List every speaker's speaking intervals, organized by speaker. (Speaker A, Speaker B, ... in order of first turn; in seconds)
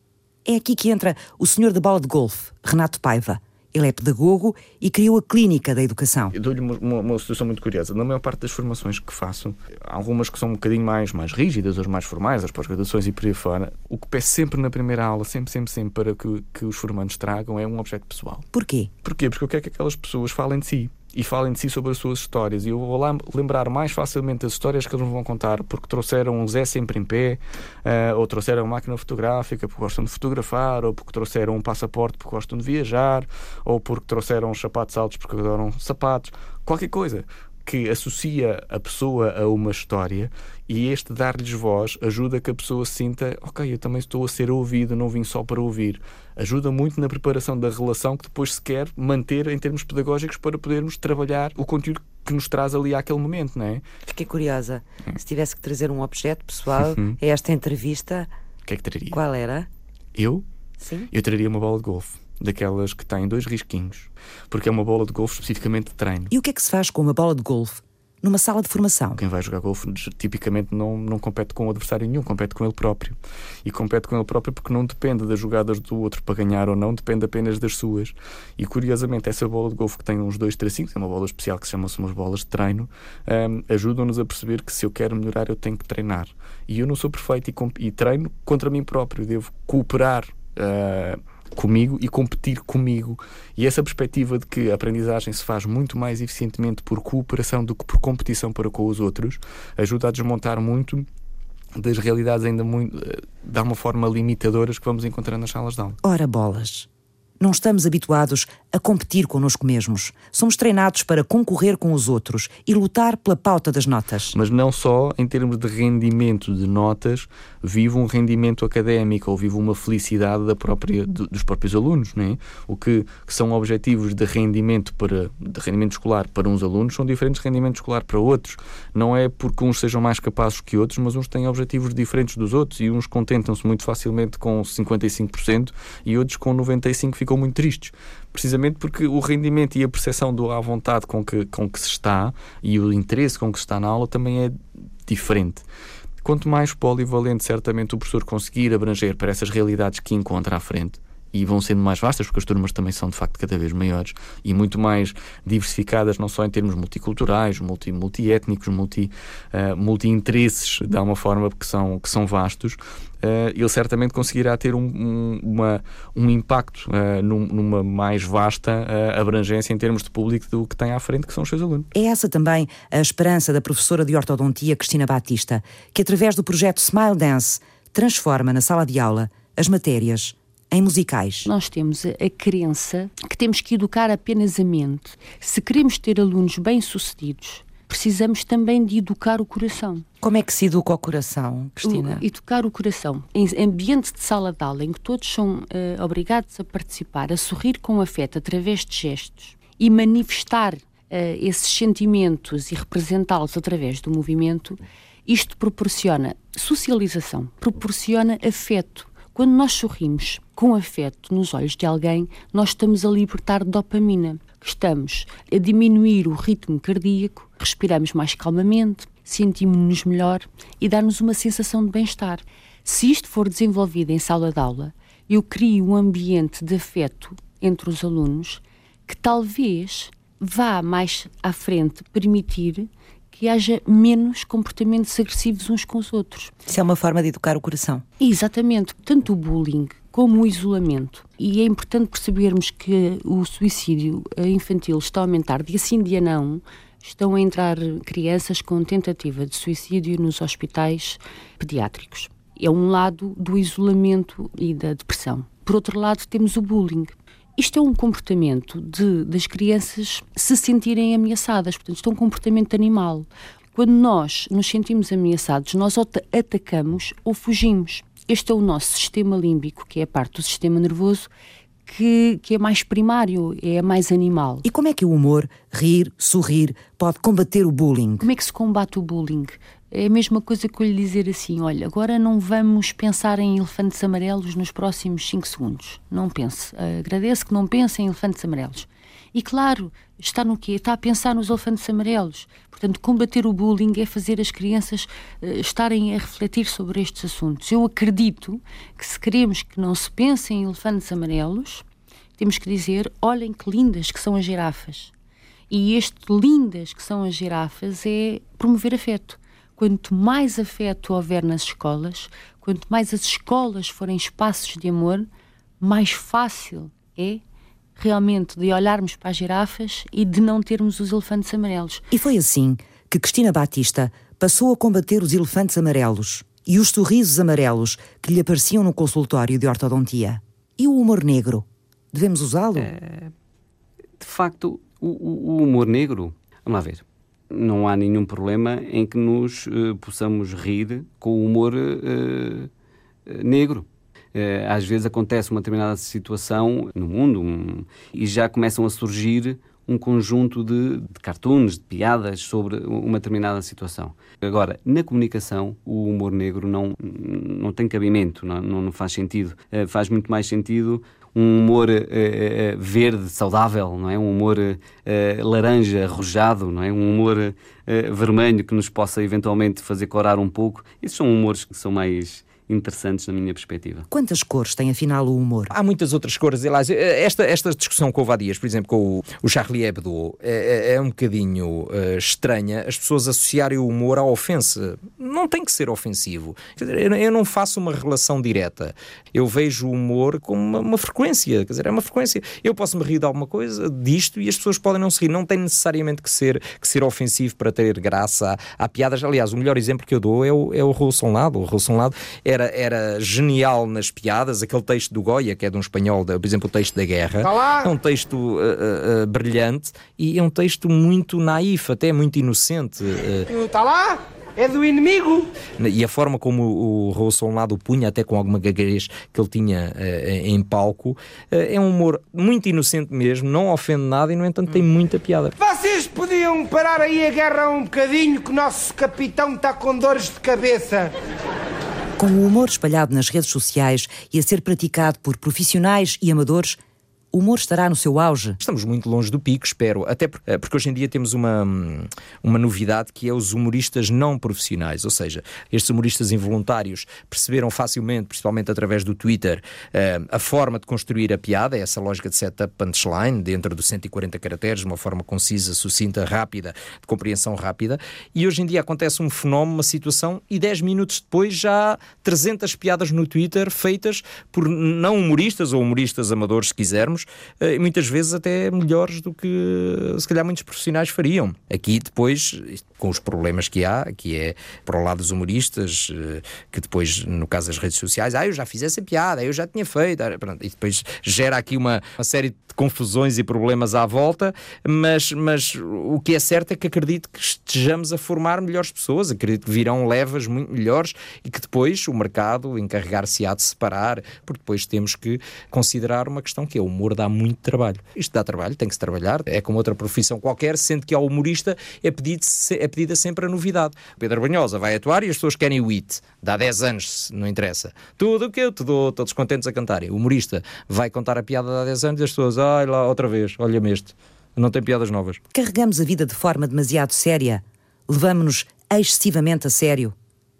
Speaker A: 0.4-6.3, 18.5-18.9, 54.1-58.3, 59.2-59.7, 66.3-69.2, 106.0-106.9, 107.4-114.4, 171.9-181.5, 190.2-192.2, 236.7-238.0, 274.6-278.3, 322.1-332.9, 374.1-375.7, 432.2-436.8, 437.3-438.6, 515.5-520.1
Speaker B: 6.3-18.4, 19.0-53.8, 56.9-57.2, 58.6-59.2, 60.1-60.4, 61.1-66.3, 69.2-101.1, 101.8-106.0, 114.3-145.6, 146.2-171.9
Speaker C: 181.4-190.1, 191.8-236.5, 238.2-271.3, 271.9-274.6, 278.2-301.8, 302.4-305.1, 305.7-315.3, 315.8-317.4, 318.0-322.1
Speaker D: 332.8-333.3, 334.2-342.7, 343.3-374.1
Speaker E: 375.7-413.5, 415.8-425.5, 438.6-515.4
Speaker F: 407.4-407.9, 413.5-415.5, 425.6-431.1